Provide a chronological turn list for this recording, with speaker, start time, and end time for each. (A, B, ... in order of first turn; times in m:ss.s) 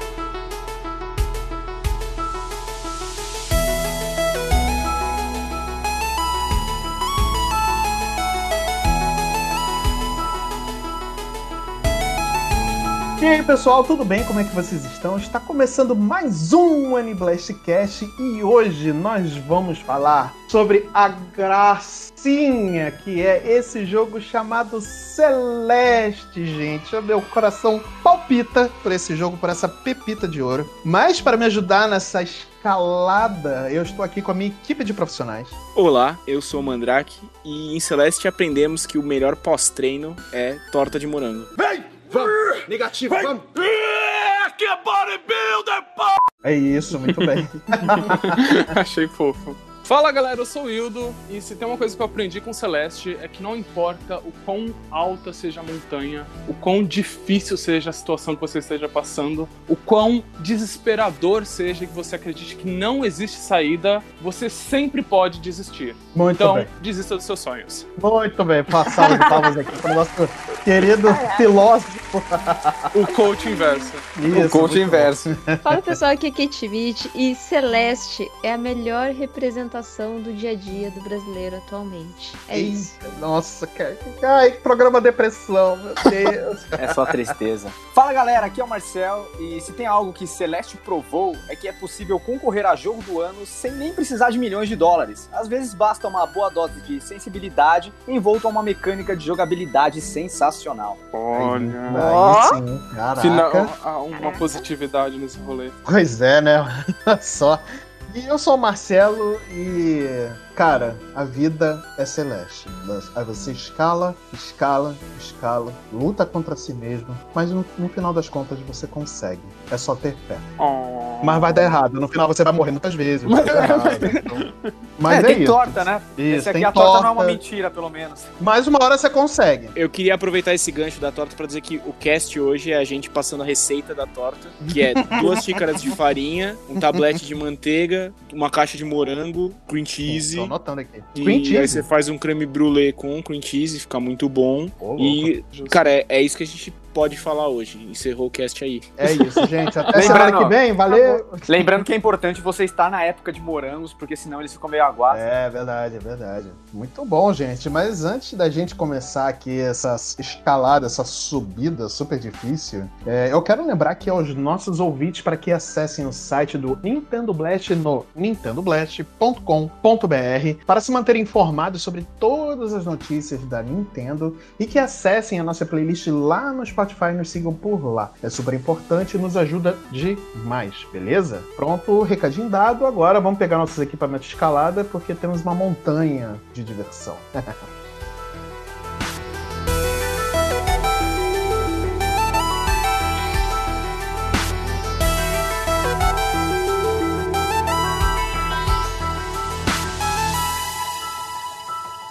0:13.2-0:35.6 A
0:35.8-0:41.5 B
0:41.6-0:46.2 C
0:46.4-0:48.7 A
0:47.0-1:07.9 D
1:06.1-1:06.7 A
1:08.0-1:12.9 A
1:09.0-1:09.3 E
1:11.0-1:11.5 E
1:12.9-1:14.0 D
1:13.1-1:13.9 E
1:14.2-1:16.0 A
1:14.3-1:15.3 F
1:15.6-1:22.9 E
1:22.5-1:27.1 A
1:26.8-1:41.0 F
1:41.1-1:42.2 D
1:41.4-1:43.7 A
1:42.1-1:42.5 E
1:43.2-1:45.7 D
1:44.1-1:44.6 E
1:45.8-2:00.5 A
2:00.6-2:01.8 D
2:01.2-2:04.5 A
2:03.3-2:04.7 D
2:03.4-2:04.2 B
2:05.0-2:07.4 A
2:05.1-2:08.3 F
2:08.4-2:09.7 A
2:09.8-2:20.5 B
2:14.7-2:15.9 A
2:20.1-2:21.8 A
2:21.1-2:28.9 B
2:24.8-2:25.3 A
2:25.5-2:25.8 D
2:29.0-2:31.7 A
2:29.8-2:30.2 D
2:30.0-2:30.6 F
2:30.9-2:31.2 E
2:31.5-2:35.2 F
2:35.1-3:07.6 A